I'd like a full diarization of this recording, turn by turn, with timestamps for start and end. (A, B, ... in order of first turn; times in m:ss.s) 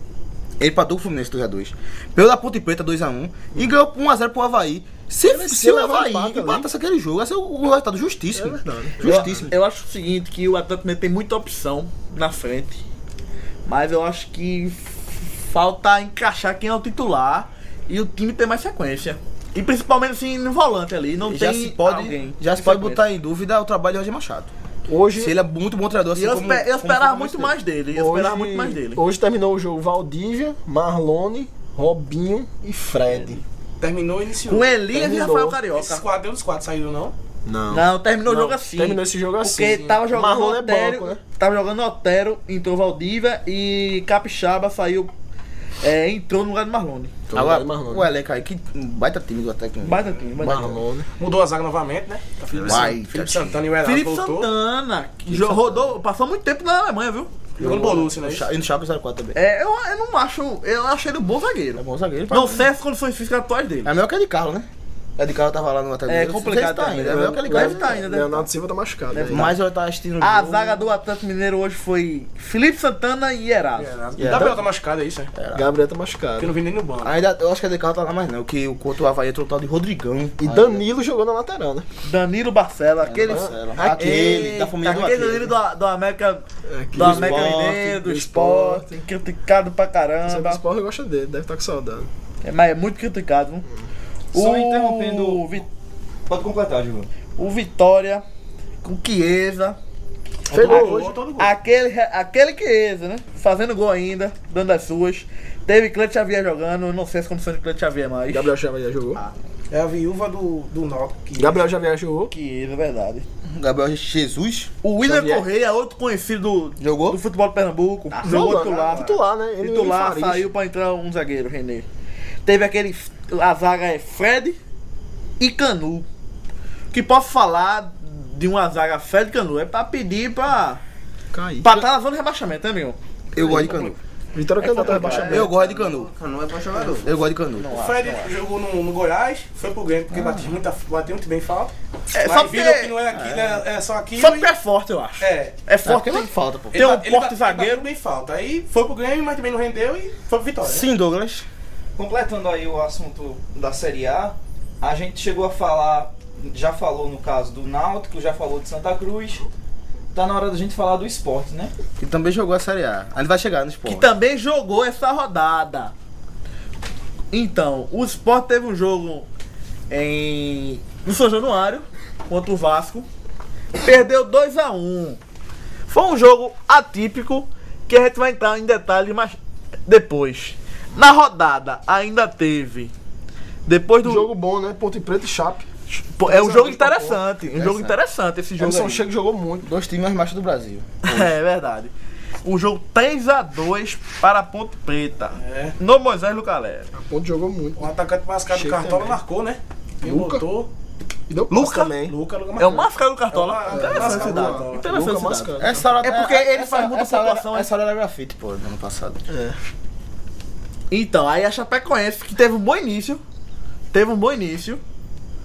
0:00.6-0:09.5 A
0:05.2-0:06.7 B
0:08.3-0:09.5 B
0:09.0-0:12.8 C
0:13.7-0:23.0 C
0:21.2-0:24.5 A
0:24.9-0:25.4 B
0:25.1-0:27.6 A
0:26.1-0:29.0 C
0:27.9-0:33.4 B
0:33.8-0:34.7 D
0:34.4-0:36.0 C
0:34.9-0:35.6 B
0:35.7-0:37.1 D
0:37.4-0:41.2 B
0:37.7-0:45.1 C
0:45.8-0:47.1 C
0:47.3-0:48.1 B
0:47.3-0:50.0 A
0:49.8-0:50.8 C
0:50.4-0:51.1 B
0:51.2-0:54.5 D
0:52.6-0:52.9 B
0:52.6-0:53.6 A
0:53.8-0:57.3 C
0:55.3-0:55.9 A
0:57.6-0:58.5 D
0:57.6-0:59.4 A
0:59.4-1:03.9 C
1:01.8-1:02.7 A
1:03.8-1:08.0 A
1:06.1-1:08.5 C
1:07.0-1:09.6 B
1:09.1-1:09.6 C
1:09.3-1:10.9 A
1:10.2-1:13.9 C
1:13.8-1:15.3 D
1:14.2-1:14.6 A
1:15.4-1:15.7 A
1:15.5-1:16.5 B
1:16.4-1:17.2 D
1:17.0-1:20.9 A
1:20.4-1:21.9 B
1:22.0-1:30.6 C
1:23.0-1:25.6 A
1:23.3-1:24.5 B
1:26.7-1:29.0 B
1:27.0-1:27.8 A
1:30.2-1:32.1 B
1:32.4-1:33.7 C
1:34.3-1:35.7 C
1:34.3-1:35.4 E
1:36.3-1:37.1 E
1:37.4-1:38.2 C
1:38.8-1:39.8 C
1:40.5-1:41.2 B
1:40.5-1:41.6 D
1:40.6-1:48.5 C
1:48.3-1:49.2 B
1:49.7-1:51.8 D
1:51.4-1:52.3 B
1:52.3-1:53.2 C
1:53.5-1:54.7 A
1:54.8-2:01.9 C
1:55.0-1:55.4 B
1:56.8-1:57.2 A
1:58.1-1:59.1 F
1:58.2-2:00.5 B
2:02.4-2:04.6 C
2:05.4-2:06.1 C
2:06.9-2:10.8 C
2:11.3-2:11.7 B
2:11.6-2:13.0 C
2:13.3-2:14.0 A
2:14.3-2:15.5 B
2:14.6-2:15.4 C
2:14.8-2:17.2 F
2:15.2-2:16.1 A
2:17.0-2:17.8 A
2:17.6-2:18.4 C
2:17.7-2:24.5 D
2:20.1-2:20.5 A
2:22.1-2:23.0 C
2:23.1-2:23.6 A
2:24.2-2:27.9 C
2:25.2-2:25.6 D
2:25.8-2:26.8 A
2:26.7-2:30.9 D
2:30.6-2:31.5 A
2:32.0-2:39.4 E
2:40.1-2:41.7 E
2:42.0-2:44.1 A
2:43.8-2:45.9 C
2:47.3-2:49.3 C
2:49.9-2:53.1 C
2:53.8-2:55.2 C
2:55.9-3:02.9 C
3:03.7-3:04.3 C
3:04.0-3:05.7 B
3:05.9-3:09.0 C
3:06.2-3:07.3 B
3:07.5-3:08.0 A
3:08.6-3:09.7 B
3:09.6-3:11.3 A
3:11.0-3:11.9 C
3:12.4-3:16.9 C
3:15.4-3:15.8 D
3:17.0-3:17.9 B
3:17.8-3:20.7 D
3:18.5-3:19.2 B
3:20.0-3:20.4 B
3:21.3-3:22.1 B
3:21.5-3:21.9 C
3:21.8-3:24.9 D
3:22.6-3:27.7 C
3:23.7-3:26.0 B
3:25.6-3:29.2 A
3:29.3-3:29.6 B
3:30.9-3:33.2 C
3:33.9-3:34.8 C